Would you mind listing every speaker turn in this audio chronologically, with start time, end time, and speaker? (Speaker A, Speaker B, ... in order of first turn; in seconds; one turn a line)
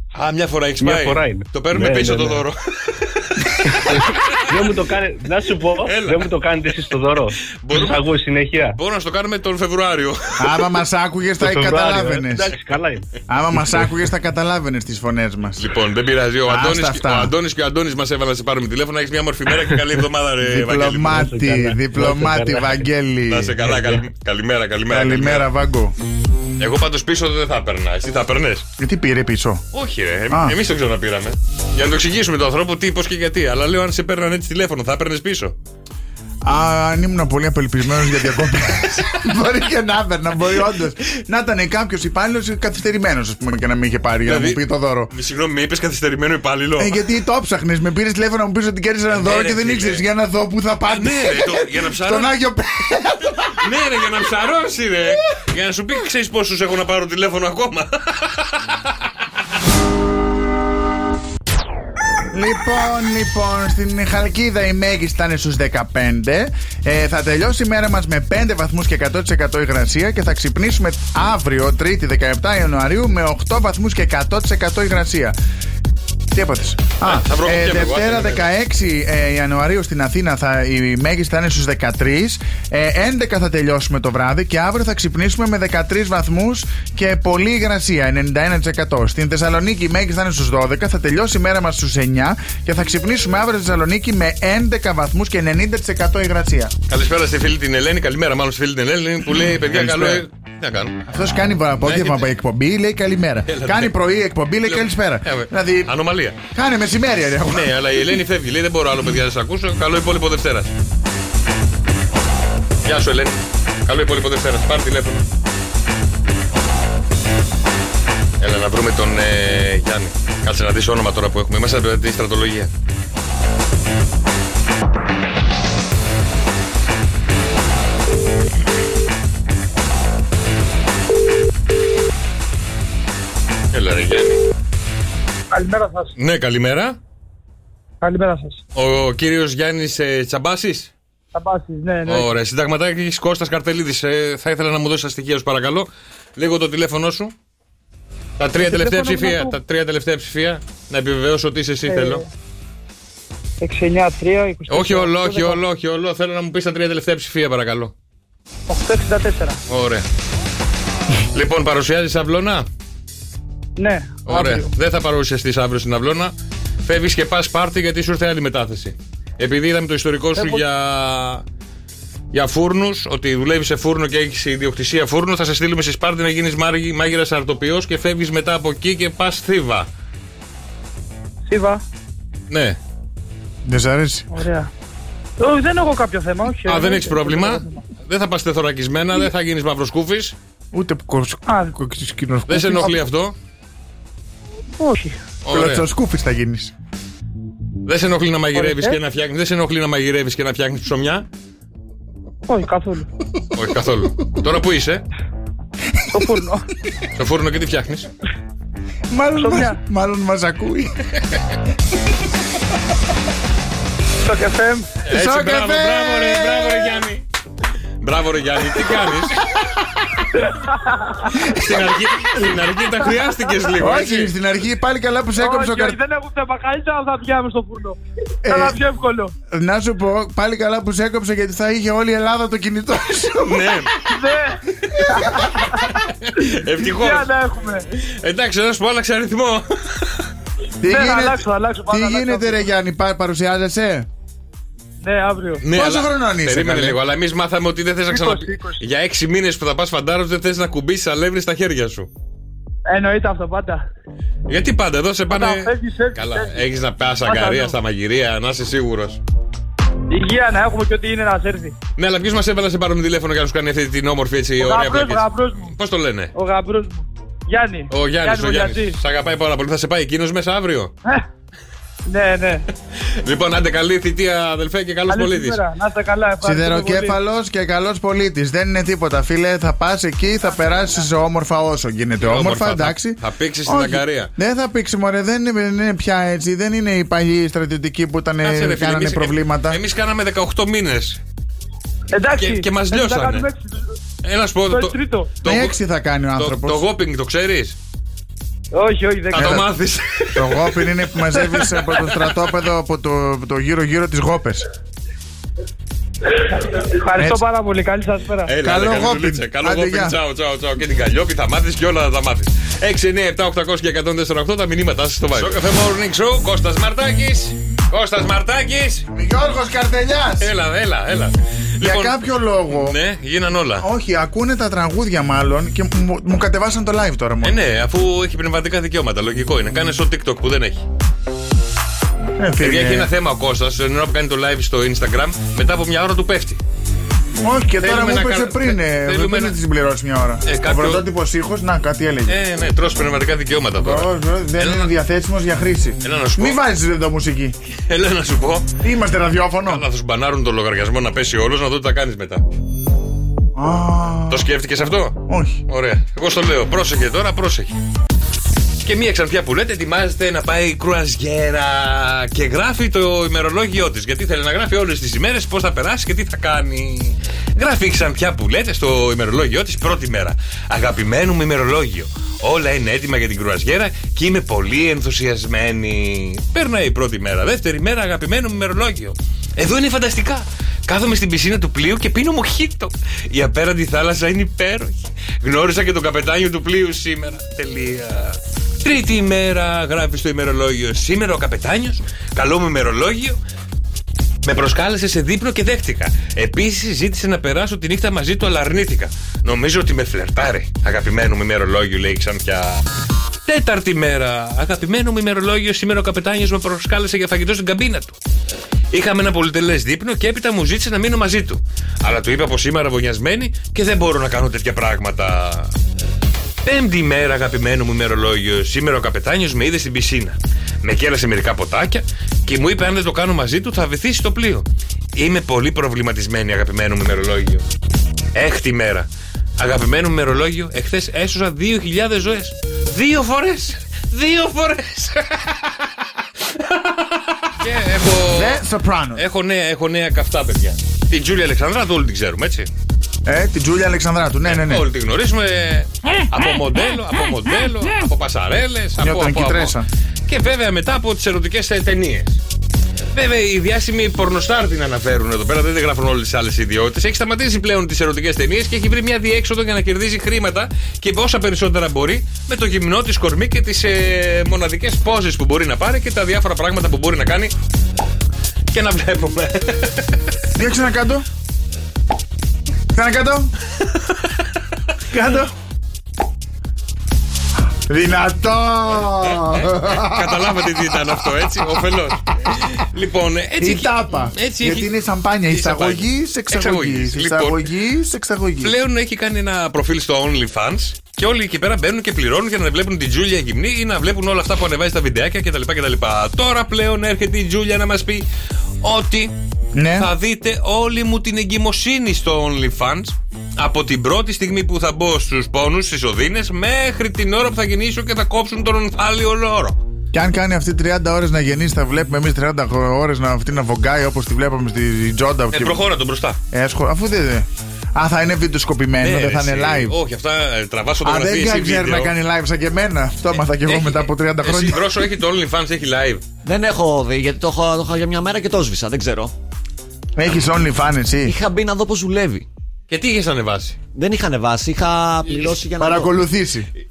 Speaker A: 0.1-4.7
Speaker B: 0.8-2.4
Speaker B: 3.7-8.8
Speaker A: 5.8-6.9
Speaker A: 7.5-8.0
Speaker A: 8.7-10.6
Speaker C: 10.4-12.5
Speaker B: 11.4-13.1
Speaker C: 13.3-15.7
Speaker A: 15.6-21.3
Speaker C: 16.5-17.3
Speaker C: 20.4-23.7
Speaker B: 21.1-22.9
Speaker A: 23.3-25.5
Speaker B: 23.6-24.0
Speaker C: 24.9-25.9
Speaker A: 26.6-28.7
Speaker C: 28.8-29.6
Speaker A: 29.7-35.5
Speaker C: 30.3-30.6
Speaker C: 36.4-45.1
Speaker A: 44.2-47.0
Speaker C: 46.8-53.3
Speaker A: 49.1-50.1
Speaker A: 50.9-52.3
Speaker A: 53.5-58.9
Speaker C: 62.3-75.3
Speaker C: 76.3-96.7
Speaker A: 77.0-78.5
Speaker A: 96.9-101.0
Speaker C: 99.4-100.2
Speaker C: 101.1-105.9
Speaker A: 101.8-102.3
Speaker A: 103.5-104.0
Speaker A: 104.7-106.4
Speaker C: 106.5-107.9
Speaker A: 107.5-110.7
Speaker A: 112.8-115.2
Speaker A: 118.4-122.7
Speaker A: 133.7-134.4
Speaker D: 135.5-136.1
Speaker A: 136.2-137.0
Speaker D: 138.0-138.6
Speaker A: 138.7-140.9
Speaker D: 141.3-142.3
Speaker A: 142.1-147.3
Speaker A: 148.4-152.2
Speaker D: 148.6-149.6
Speaker D: 151.9-152.2
Speaker D: 153.6-155.6
Speaker A: 154.7-157.9
Speaker D: 158.7-159.6
Speaker A: 159.7-160.1
Speaker A: 161.3-162.7
Speaker D: 163.8-164.7
Speaker A: 164.2-166.3
Speaker A: 166.8-171.4
Speaker D: 170.4-170.6
Speaker A: 172.3-179.9
Speaker D: 181.5-181.8
Speaker A: 182.5-182.8
Speaker C: 183.6-184.4
Speaker D: 184.3-184.7
Speaker D: 185.4-187.8
Speaker A: 186.6-190.3
Speaker C: 190.7-193.0
Speaker D: 191.4-191.7
Speaker A: 192.5-193.3
Speaker D: 194.8-195.2
Speaker A: 195.4-195.9
Speaker C: 195.5-196.7
Speaker A: 197.9-201.3
Speaker D: 198.5-199.0
Speaker D: 202.5-203.1
Speaker A: 203.5-205.0
Speaker D: 206.1-206.6
Speaker A: 207.2-208.1
Speaker C: 209.1-211.0
Speaker D: 209.4-209.8
Speaker D: 214.2-214.9
Speaker A: 215.1-217.2
Speaker C: 215.1-217.0
Speaker A: 218.0-219.5
Speaker D: 220.3-221.3
Speaker A: 221.3-224.3
Speaker C: 223.8-226.0
Speaker D: 225.4-229.3
Speaker C: 228.4-228.8
Speaker C: 229.5-233.8
Speaker A: 233.4-233.9
Speaker D: 234.0-237.8
Speaker A: 235.6-237.3
Speaker A: 238.0-240.1
Speaker C: 240.8-244.1
Speaker D: 240.8-242.6
Speaker D: 245.0-245.6
Speaker A: 245.6-252.1
Speaker C: 245.7-247.0
Speaker D: 248.1-248.8
Speaker D: 252.9-253.9
Speaker A: 254.5-259.2
Speaker D: 255.3-256.6
Speaker D: 257.2-257.7
Speaker D: 260.1-261.7
Speaker A: 262.0-266.3
Speaker D: 264.6-265.7
Speaker D: 266.3-269.0
Speaker A: 267.9-270.9
Speaker D: 272.1-272.6
Speaker A: 273.0-275.6
Speaker D: 275.1-277.2
Speaker C: 276.4-289.8
Speaker A: 282.2-284.3
Speaker A: 288.4-291.2
Speaker D: 292.1-293.8
Speaker A: 292.4-293.5
Speaker A: 294.2-295.8
Speaker D: 294.7-295.3
Speaker C: 295.4-296.8
Speaker A: 296.3-297.8
Speaker D: 298.7-299.6
Speaker A: 299.3-300.9
Speaker C: 299.4-299.7
Speaker C: 300.3-304.6
Speaker A: 301.6-302.3
Speaker D: 306.6-308.5
Speaker C: 307.1-307.4
Speaker A: 308.4-319.1
Speaker C: 308.6-310.1
Speaker C: 319.1-320.5
Speaker A: 320.4-322.2
Speaker C: 321.8-323.0
Speaker A: 322.7-323.9
Speaker C: 323.8-327.6
Speaker A: 327.4-330.8
Speaker C: 332.4-333.1
Speaker A: 332.6-336.6
Speaker C: 337.4-342.4
Speaker A: 337.8-339.6
Speaker A: 340.4-341.0
Speaker A: 342.3-344.9
Speaker C: 343.8-347.5
Speaker A: 346.0-346.6
Speaker A: 347.9-348.7
Speaker C: 348.8-349.8
Speaker A: 349.6-352.4
Speaker C: 353.5-354.5
Speaker A: 354.3-357.8
Speaker C: 355.2-355.6
Speaker A: 358.8-393.4
Speaker A: 394.4-402.8
Speaker A: 403.4-408.2
Speaker A: 408.9-415.7
Speaker A: 416.6-427.6
Speaker A: 428.3-435.9
Speaker A: 436.5-438.6
Speaker C: 438.3-439.2
Speaker A: 439.1-442.7
Speaker C: 443.2-444.9
Speaker A: 444.4-449.7
Speaker C: 449.0-449.9
Speaker A: 450.3-452.4
Speaker A: 453.1-467.5
Speaker A: 468.7-470.1
Speaker C: 470.6-471.2
Speaker C: 472.9-473.5
Speaker C: 475.1-475.5
Speaker C: 477.9-480.6
Speaker A: 479.9-484.9
Speaker C: 483.6-488.7
Speaker A: 485.5-487.6
Speaker A: 488.6-498.2
Speaker A: 498.8-499.3
Speaker C: 499.7-500.1
Speaker A: 499.9-509.8
Speaker C: 510.1-515.8
Speaker A: 515.5-516.4
Speaker C: 516.5-519.9
Speaker A: 519.0-522.1
Speaker C: 521.0-524.8
Speaker A: 523.6-526.2
Speaker E: 526.4-529.3
Speaker C: 530.1-531.4
Speaker E: 531.2-532.5
Speaker A: 532.9-533.8
Speaker E: 533.9-536.1
Speaker C: 535.8-536.7